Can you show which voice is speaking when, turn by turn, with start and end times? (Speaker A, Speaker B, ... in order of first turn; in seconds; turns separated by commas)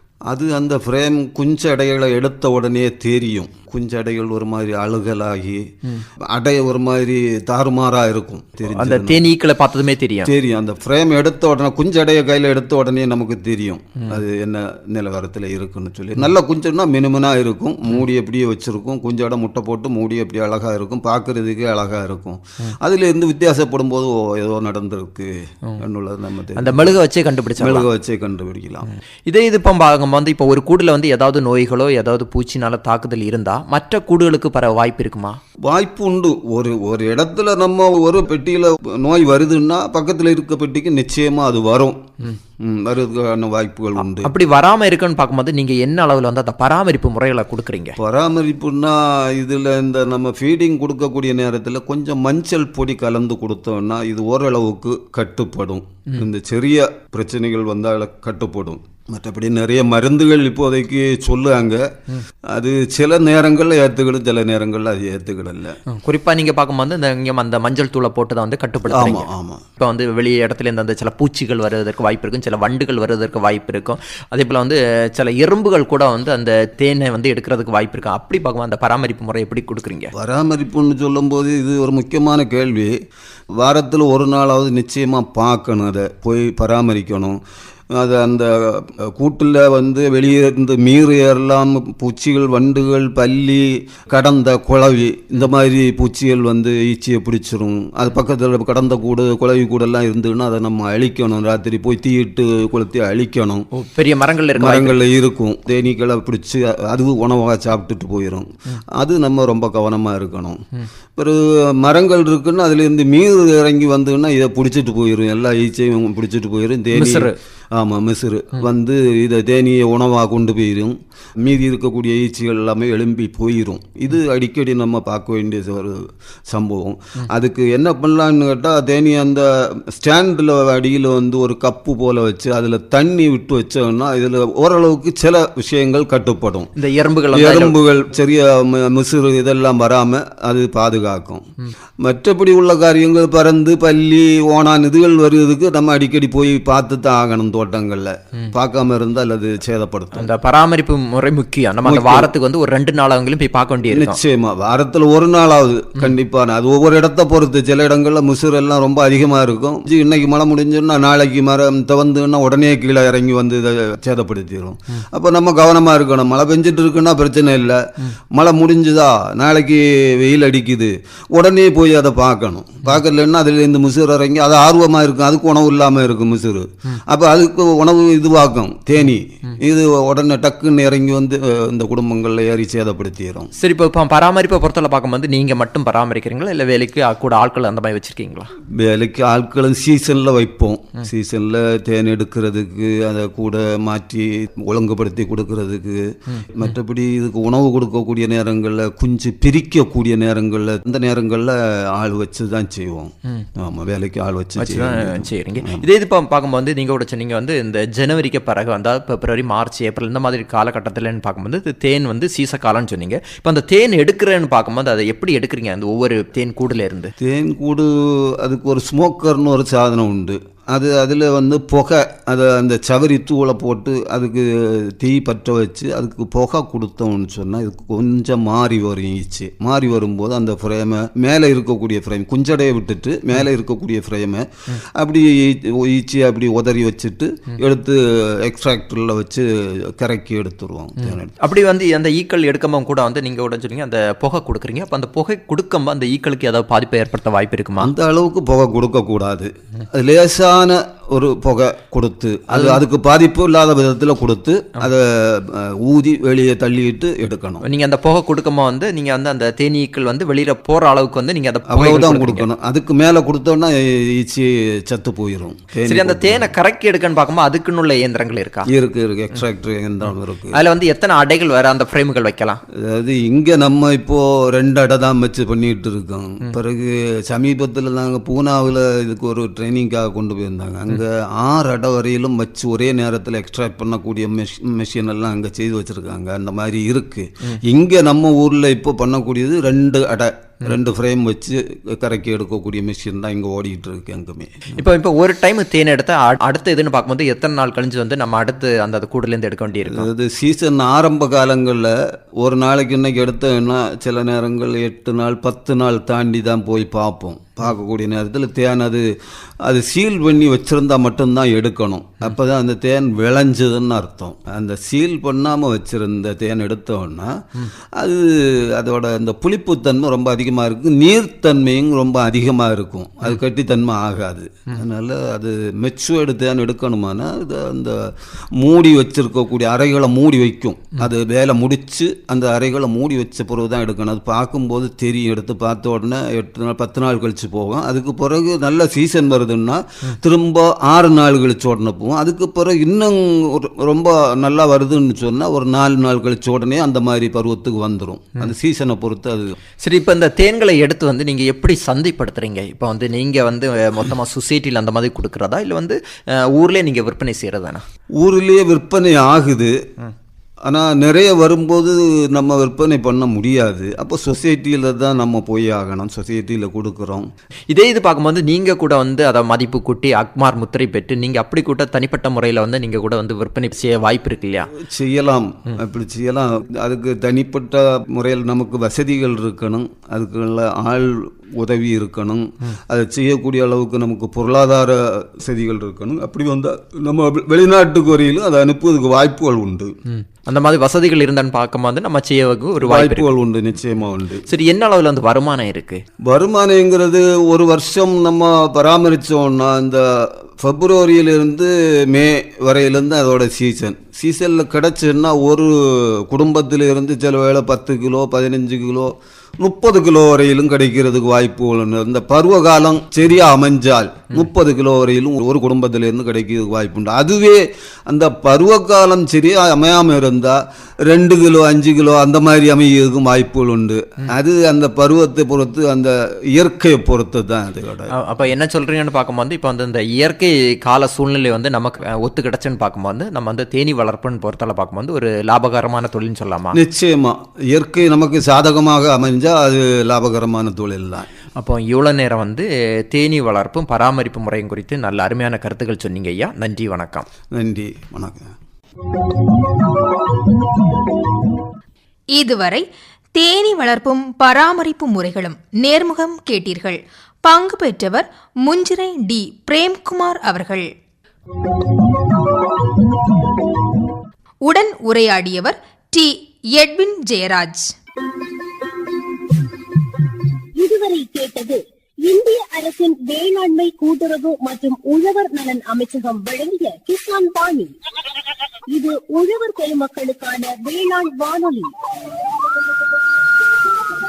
Speaker A: 0.3-5.7, Speaker A: 6.3-9.2, Speaker B: 8.7-10.3, Speaker A: 10.2-27.0, Speaker B: 26.6-27.9, Speaker A: 27.6-28.9, Speaker B: 28.9-35.4, Speaker A: 35.6-42.0, Speaker A: 42.6-44.3, Speaker B: 44.0-48.0, Speaker A: 48.0-61.8, Speaker A: 62.5-65.8, Speaker B: 65.9-69.3, Speaker A: 68.9-69.6, Speaker B: 69.8-80.1, Speaker A: 80.1-82.9, Speaker A: 83.6-87.4, Speaker A: 87.9-103.7, Speaker B: 103.7-105.0, Speaker A: 104.5-110.6, Speaker A: 111.2-136.7, Speaker B: 116.9-117.3, Speaker B: 136.8-137.8, Speaker A: 137.3-141.4, Speaker A: 142.0-150.3, Speaker B: 150.1-154.2, Speaker A: 151.8-152.3, Speaker A: 153.9-183.5, Speaker B: 183.6-188.5, Speaker A: 188.7-205.8, Speaker B: 196.3-196.7, Speaker B: 204.6-217.1, Speaker A: 217.2-241.3, Speaker B: 241.0-247.9, Speaker A: 247.8-257.6, Speaker B: 252.5-252.8, Speaker B: 257.6-262.5, Speaker A: 261.7-266.5, Speaker B: 265.9-268.7, Speaker A: 268.7-270.6, Speaker B: 270.5-272.6, Speaker A: 272.7-294.7, Speaker B: 294.8-300.1, Speaker A: 299.8-309.1, Speaker A: 309.6-317.4, Speaker A: 317.9-349.6, Speaker B: 349.8-357.8, Speaker A: 358.2-359.8, Speaker A: 360.6-367.3, Speaker B: 367.7-374.7, Speaker A: 374.8-389.9, Speaker B: 390.1-393.3, Speaker A: 392.8-394.4, Speaker B: 394.5-396.0, Speaker A: 396.2-428.1, Speaker B: 428.1-436.8, Speaker A: 436.7-441.3, Speaker B: 441.6-447.3, Speaker A: 447.5-448.5, Speaker C: 452.4-452.8, Speaker C: 453.4-460.9, Speaker C: 464.7-467.9, Speaker D: 470.8-477.9, Speaker D: 478.9-481.9